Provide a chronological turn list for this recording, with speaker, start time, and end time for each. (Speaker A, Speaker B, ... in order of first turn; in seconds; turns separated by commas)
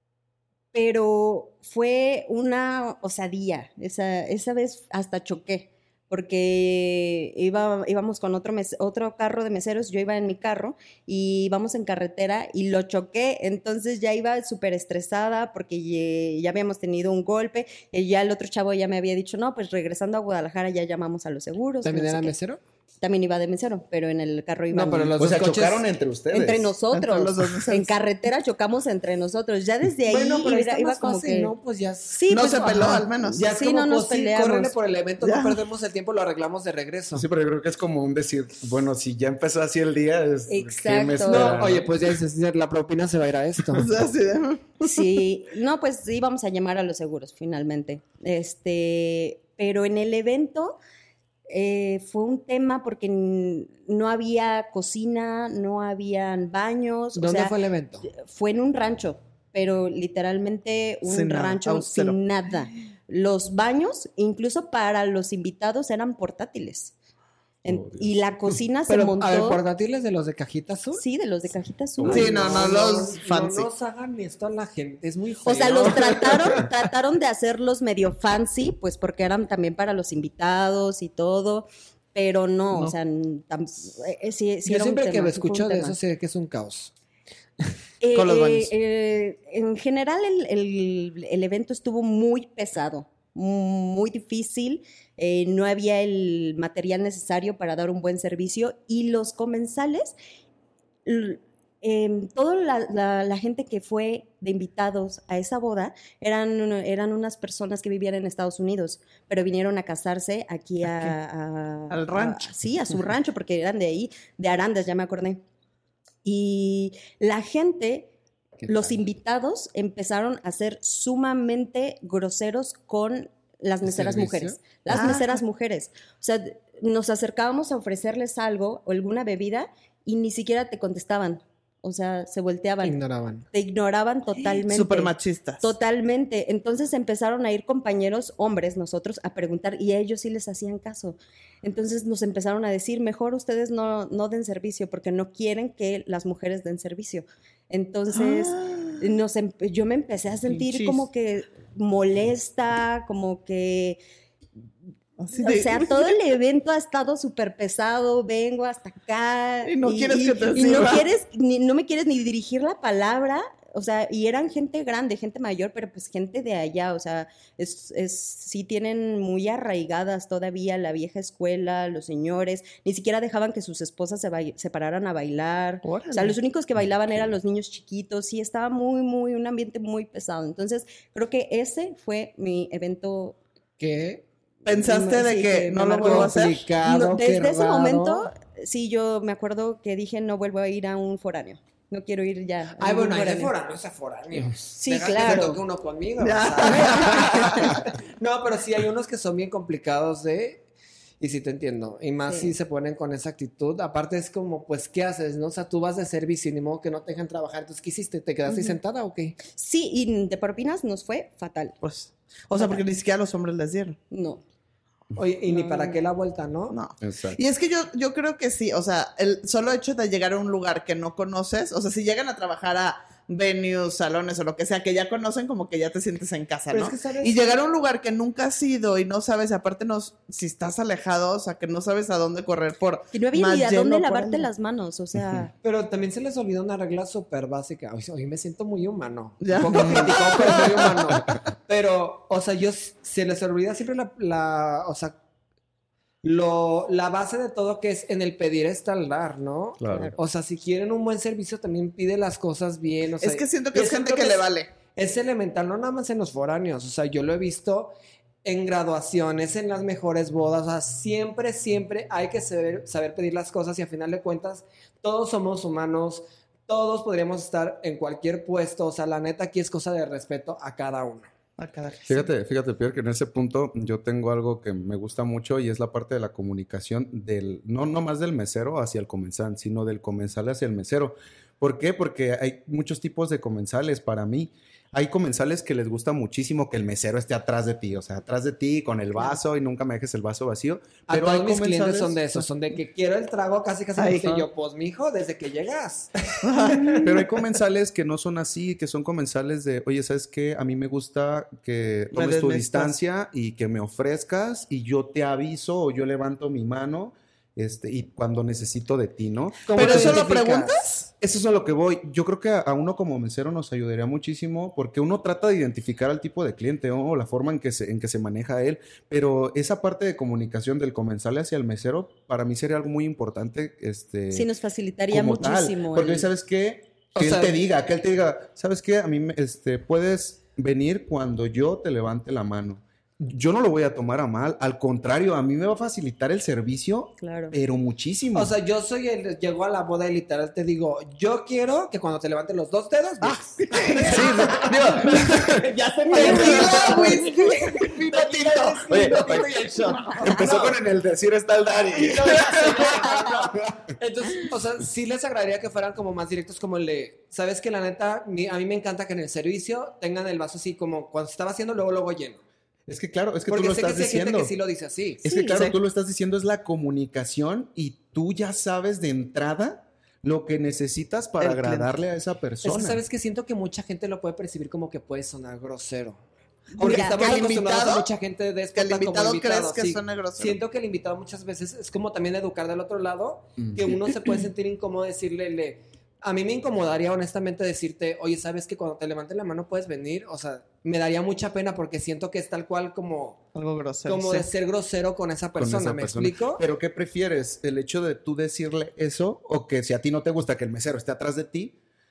Speaker A: 0.7-22.3, Speaker B: 21.8-22.6, Speaker A: 23.0-25.1, Speaker B: 24.7-25.9, Speaker C: 25.2-26.7, Speaker A: 26.3-31.5, Speaker D: 26.9-27.9, Speaker B: 30.1-37.3, Speaker A: 32.1-34.7, Speaker D: 32.3-33.4, Speaker D: 35.2-35.6, Speaker C: 37.1-41.9, Speaker A: 40.5-41.6, Speaker B: 41.3-43.9, Speaker D: 43.8-45.1, Speaker A: 44.8-50.8, Speaker A: 51.5-57.5, Speaker B: 57.2-58.1, Speaker A: 58.1-66.9, Speaker D: 61.0-62.2, Speaker A: 67.6-69.6, Speaker C: 67.7-68.1, Speaker B: 68.9-71.0, Speaker A: 71.0-72.7, Speaker C: 72.0-72.3, Speaker B: 72.1-76.7, Speaker D: 72.1-73.7, Speaker A: 75.5-86.0, Speaker B: 84.7-86.9, Speaker A: 88.0-100.2, Speaker D: 88.2-88.7, Speaker A: 101.1-115.4, Speaker D: 111.9-112.5, Speaker A: 116.2-118.1, Speaker A: 118.6-133.0, Speaker B: 123.9-124.5, Speaker D: 124.9-125.4, Speaker B: 132.8-133.5, Speaker A: 133.5-154.0, Speaker D: 134.5-135.7, Speaker D: 148.1-149.0, Speaker D: 150.5-151.1, Speaker D: 155.2-156.1, Speaker A: 155.4-183.4, Speaker D: 159.7-161.1, Speaker D: 175.8-176.4, Speaker B: 183.8-184.2, Speaker D: 184.7-186.7, Speaker A: 184.8-193.5, Speaker B: 186.0-188.3, Speaker B: 192.8-200.6, Speaker A: 194.8-195.6, Speaker D: 196.2-197.8, Speaker B: 201.2-209.4, Speaker A: 202.3-202.5, Speaker A: 208.5-208.8, Speaker A: 209.5-211.8, Speaker D: 211.8-214.0, Speaker A: 212.6-212.8, Speaker A: 214.1-214.4, Speaker B: 215.2-216.8, Speaker A: 215.5-216.0, Speaker D: 216.7-234.5, Speaker C: 217.0-217.4, Speaker B: 226.7-227.6, Speaker A: 233.1-235.5, Speaker B: 235.6-245.2, Speaker D: 239.4-241.2, Speaker C: 239.7-240.1, Speaker B: 246.2-257.9, Speaker C: 249.8-250.1, Speaker A: 249.9-250.2, Speaker D: 253.2-254.7, Speaker B: 258.4-271.3, Speaker D: 271.6-272.3, Speaker C: 272.1-292.5, Speaker B: 291.1-297.2, Speaker D: 294.0-294.5, Speaker D: 296.4-297.3, Speaker C: 297.0-310.4, Speaker D: 302.1-302.9, Speaker B: 309.7-310.8, Speaker D: 309.7-311.1, Speaker C: 311.2-324.5, Speaker A: 324.3-326.3, Speaker C: 325.1-338.5, Speaker B: 327.1-327.6, Speaker A: 337.2-337.5, Speaker B: 338.3-350.8, Speaker D: 343.2-344.5, Speaker C: 344.0-345.6, Speaker D: 346.1-350.4, Speaker A: 346.1-347.6, Speaker C: 348.9-349.5, Speaker C: 350.2-353.9, Speaker B: 351.9-362.4, Speaker C: 362.9-364.5, Speaker B: 363.5-365.2, Speaker D: 365.2-365.8, Speaker C: 365.2-373.0, Speaker D: 371.4-371.9, Speaker B: 372.6-376.2, Speaker A: 376.8-377.4, Speaker B: 376.8-393.4, Speaker D: 376.8-378.1, Speaker D: 378.8-380.6, Speaker C: 383.6-384.1, Speaker D: 393.6-394.5, Speaker B: 394.1-396.6, Speaker C: 395.6-401.8